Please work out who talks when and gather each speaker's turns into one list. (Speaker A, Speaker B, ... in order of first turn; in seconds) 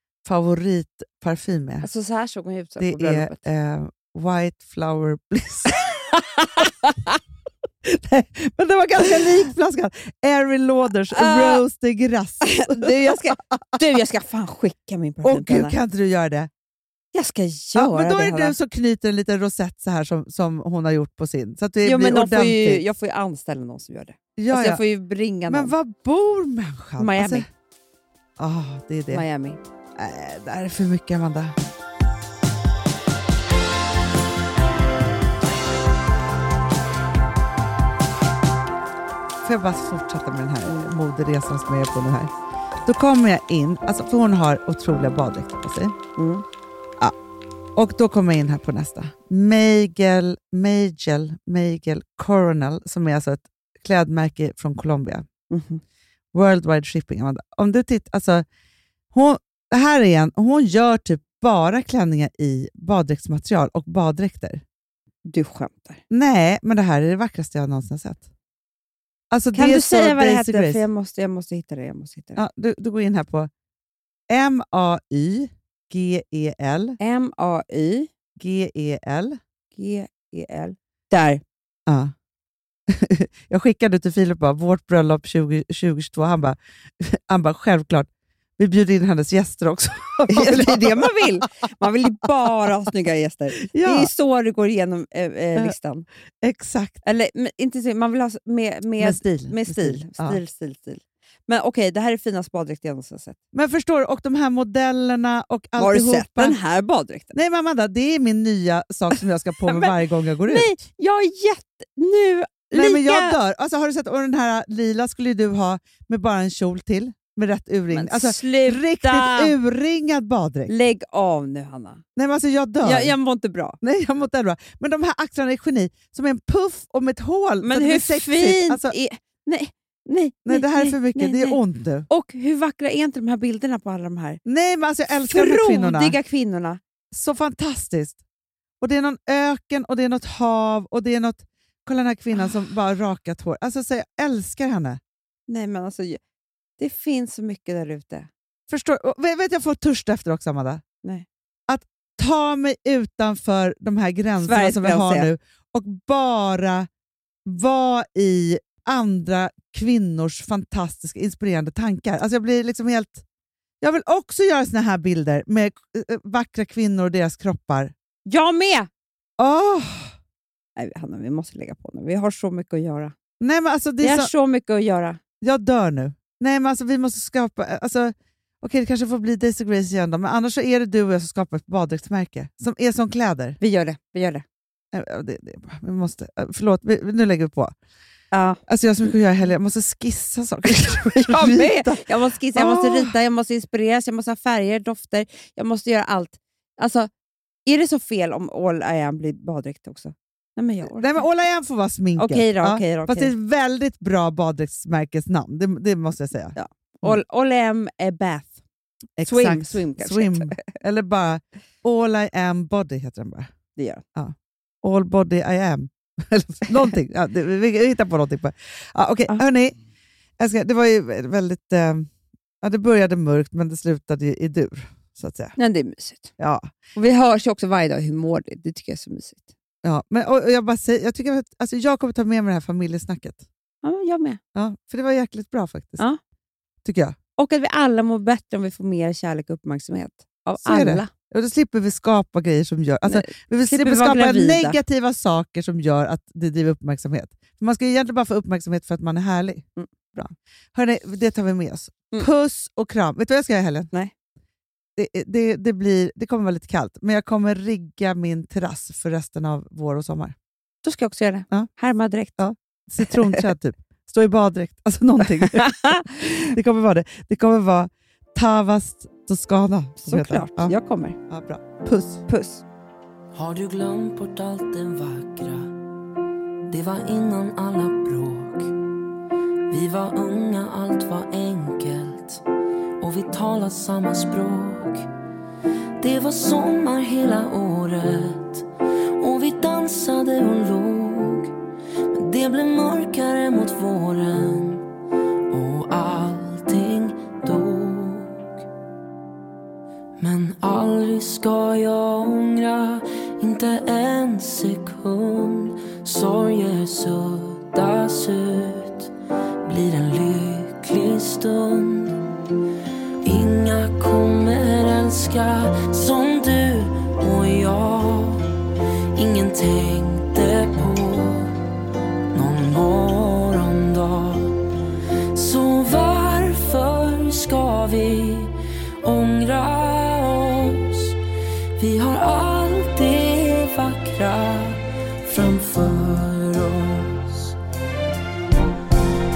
Speaker A: 0.2-1.9, 2.8-5.7, 7.8-13.9, 15.2-16.5, 17.7-22.8, 24.4-24.8, 25.5-27.5, 28.4-29.2, 29.9-31.5, 39.4-42.3, 42.8-46.0, 47.8-55.2, 56.3-58.4, 59.1-64.6, 66.1-68.3, 69.3-70.8, 72.3-73.5, 74.3-77.0, 78.4-79.4, 81.9-82.1, 82.9-91.4, 93.7-94.1, 96.4-97.0, 99.0-100.4, 103.5-106.6, 107.3-110.8, 112.7-120.7, 122.2-123.2, 123.8-128.9, 130.4-132.1, 134.4-136.2, 137.1-138.2, 138.8-145.0, 148.7-150.8, 151.7-156.9, 157.4-163.2, 163.8-167.9, 169.4-170.1, 173.4-174.3, 175.4-183.6, 184.9-187.7, 188.7-193.1, 200.9-207.2, 209.2-213.5, 214.1-219.8, 220.4-222.1, 222.6-225.6, 226.4-226.7, 229.8-233.4, 234.5-236.0, 236.8-237.2, 240.6-253.9, 254.9-260.3, 262.4-270.7, 271.3-272.2
Speaker B: 1.8-3.4, 5.9-7.2, 11.1-11.6, 12.4-15.7, 17.1-18.6, 21.8-25.7, 27.0-27.4, 29.1-29.6, 40.6-40.9, 46.2-46.4, 55.5-55.8, 65.2-66.0, 69.5-72.4, 77.0-78.1, 79.8-81.4, 90.3-96.0, 97.0-103.4, 105.8-107.3, 109.7-109.9, 110.5-113.4, 117.9-119.5, 120.7-122.0, 122.8-123.8, 127.6-134.4, 135.2-136.8, 145.5-146.2, 146.8-148.3, 154.4-155.3, 168.2-168.9, 170.8-173.1, 174.0-175.2, 183.6-184.4, 188.3-188.6, 191.3-197.1, 197.7-201.3, 202.2-203.3, 206.6-208.6, 209.2-210.6, 213.8-214.0, 225.6-226.3, 226.9-229.5, 233.8-234.4, 237.4-241.1, 243.0-244.8, 260.8-262.4, 263.0-263.4, 265.4-266.0, 270.0-271.2, 272.3-272.6
Speaker C: 273.3-275.7, 276.7-278.7, 279.7-282.4, 283.0-285.1, 286.0-288.6, 289.2-291.6, 292.1-294.9, 295.5-298.5, 300.2-309.1, 309.6-312.2, 313.2-318.5, 319.1-321.6, 322.3-324.6, 325.3-328.5, 329.0-331.2, 331.8-337.5